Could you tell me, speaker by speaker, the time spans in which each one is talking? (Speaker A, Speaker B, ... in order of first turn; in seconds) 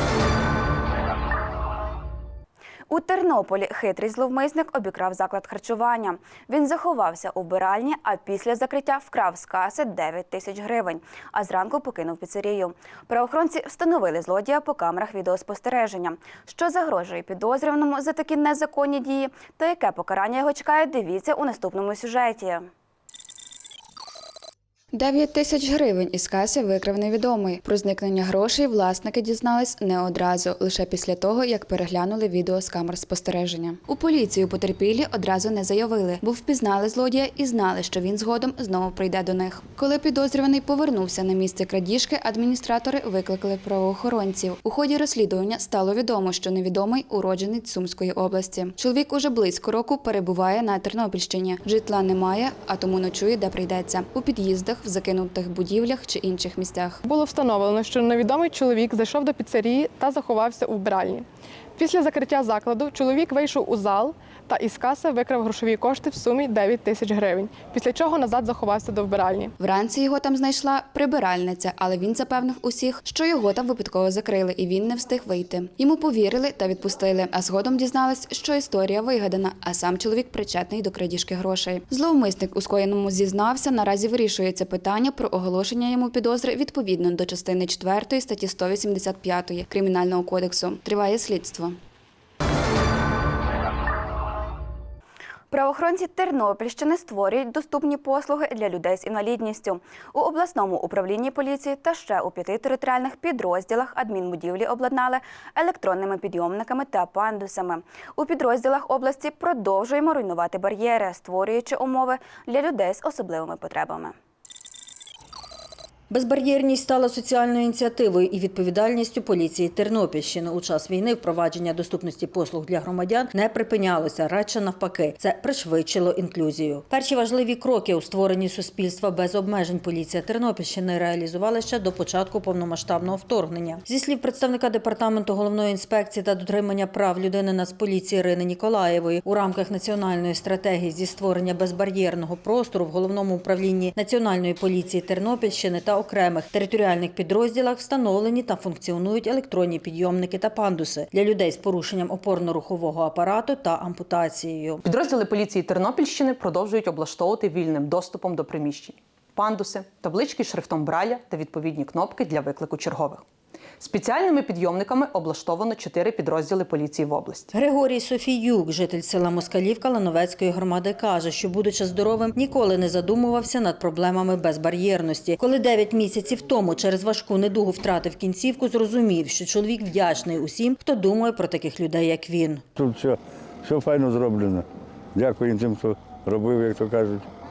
Speaker A: 2.9-22.7, 95.5-114.1
Speaker B: 24.9-57.0, 69.6-91.8
Speaker C: 57.1-61.3, 61.8-69.5
Speaker D: 116.1-154.8, 167.5-182.6
Speaker E: 154.8-163.2, 163.8-167.5
Speaker F: 182.8-187.2